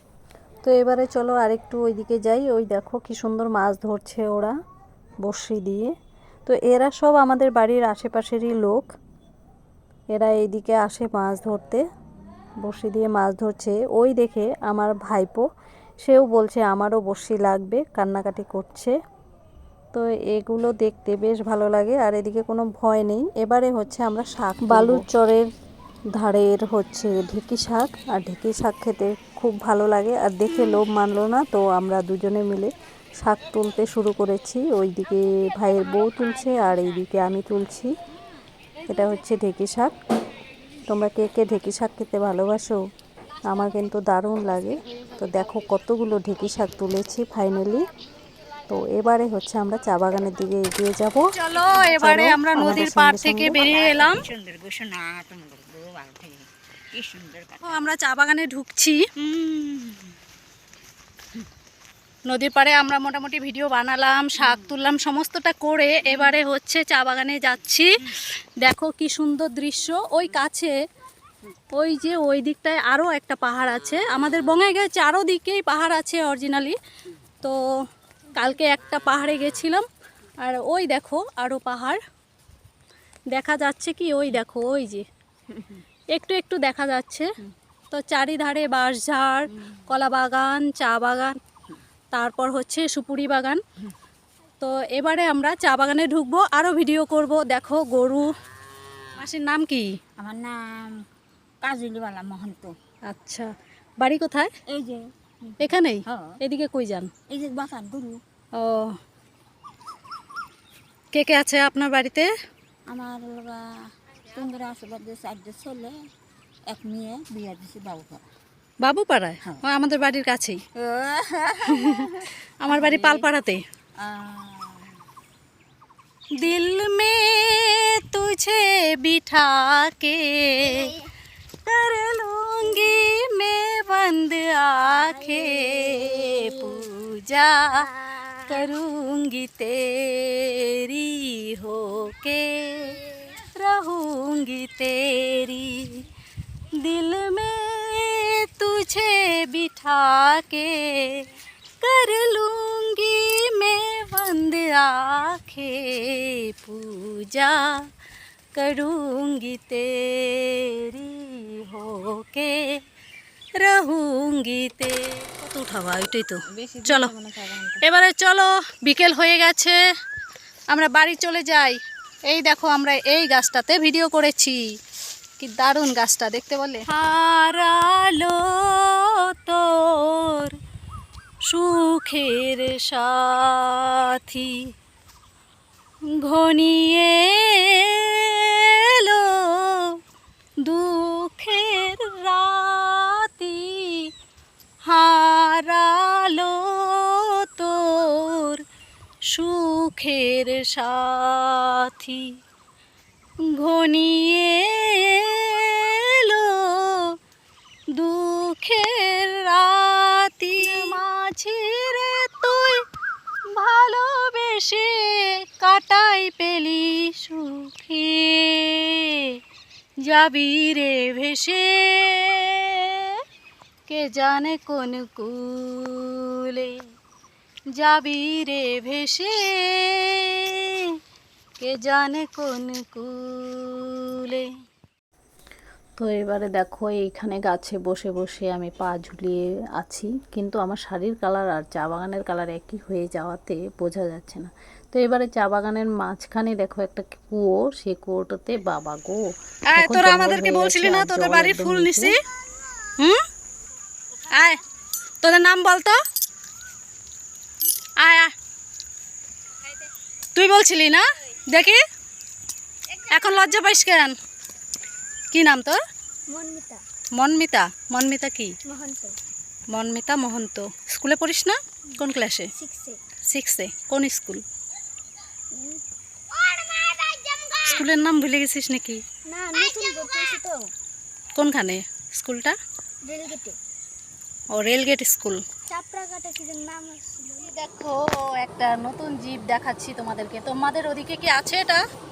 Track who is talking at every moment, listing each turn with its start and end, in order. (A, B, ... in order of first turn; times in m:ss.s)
0:00.6-0:04.5 A
0:05.2-0:05.9 A
0:06.5-0:08.9 A
0:10.1-0:11.8 A
0:12.6-0:15.4 A
0:16.0-0:18.9 A
0:19.9-0:25.4 A
0:24.7-0:25.1 B
0:26.2-0:37.9 A
0:38.9-0:39.9 A
0:40.9-0:42.8 A
0:43.5-0:47.9 A
0:48.7-0:53.6 A
0:51.3-0:54.2 B
0:53.5-0:57.9 C
0:57.6-0:59.0 B
0:59.4-1:00.0 C
1:02.3-1:10.8 B
1:11.8-1:16.8 B
1:18.3-1:19.9 B
1:20.4-1:22.0 B
1:23.3-1:25.1 B
1:25.6-1:25.8 C
1:26.1-1:27.3 B
1:27.9-1:31.4 B
1:32.1-1:33.6 B
1:34.6-1:38.3 B
1:39.2-1:39.9 B
1:40.2-1:41.0 C
1:41.6-1:42.7 C
1:43.1-1:44.5 B
1:44.7-1:46.4 C
1:45.6-1:47.1 B
1:47.3-1:48.2 C
1:48.6-1:49.0 B
1:51.1-1:52.3 B
1:52.9-1:53.6 C
1:54.3-1:56.0 C
1:56.7-1:58.2 C
1:58.8-2:00.6 B
2:00.8-2:03.3 C
2:01.6-2:03.6 B
2:04.0-2:05.0 C
2:06.4-2:11.0 B
2:11.6-2:26.1 B
2:26.8-2:31.3 B
2:31.8-2:37.7 B
2:38.6-2:42.7 B
2:43.6-2:47.1 B
2:46.5-2:47.8 C
2:47.8-2:49.8 B
2:50.7-2:54.6 B
2:55.4-3:00.6 B
3:01.5-3:04.7 B
3:06.2-3:10.0 B
3:10.6-3:14.1 B
3:14.8-3:18.6 B
3:19.3-3:22.3 B
3:23.5-3:27.2 B
3:27.9-3:32.8 B
3:33.5-3:39.4 B
3:40.0-3:43.2 B
3:43.9-3:46.8 B
3:47.8-3:50.8 B
3:51.6-3:54.5 B
3:56.0-4:09.2 A
4:09.7-4:12.2 B
4:09.8-4:12.2 A
4:15.2-4:16.0 B
4:18.0-4:18.3 B
4:20.4-4:21.8 B
4:23.0-4:24.2 B
4:25.3-4:25.8 B
4:26.3-4:26.8 D
4:27.2-4:28.5 B
4:28.7-4:29.2 D
4:29.7-4:32.5 B
4:32.6-4:33.0 D
4:33.3-4:34.4 B
4:35.5-4:35.8 D
4:36.4-4:37.8 D
4:37.6-4:39.0 B
4:39.3-4:40.7 D
4:41.4-4:42.6 B
4:43.1-4:43.6 D
4:44.5-4:45.4 B
4:45.7-4:47.5 D
4:47.4-4:51.8 B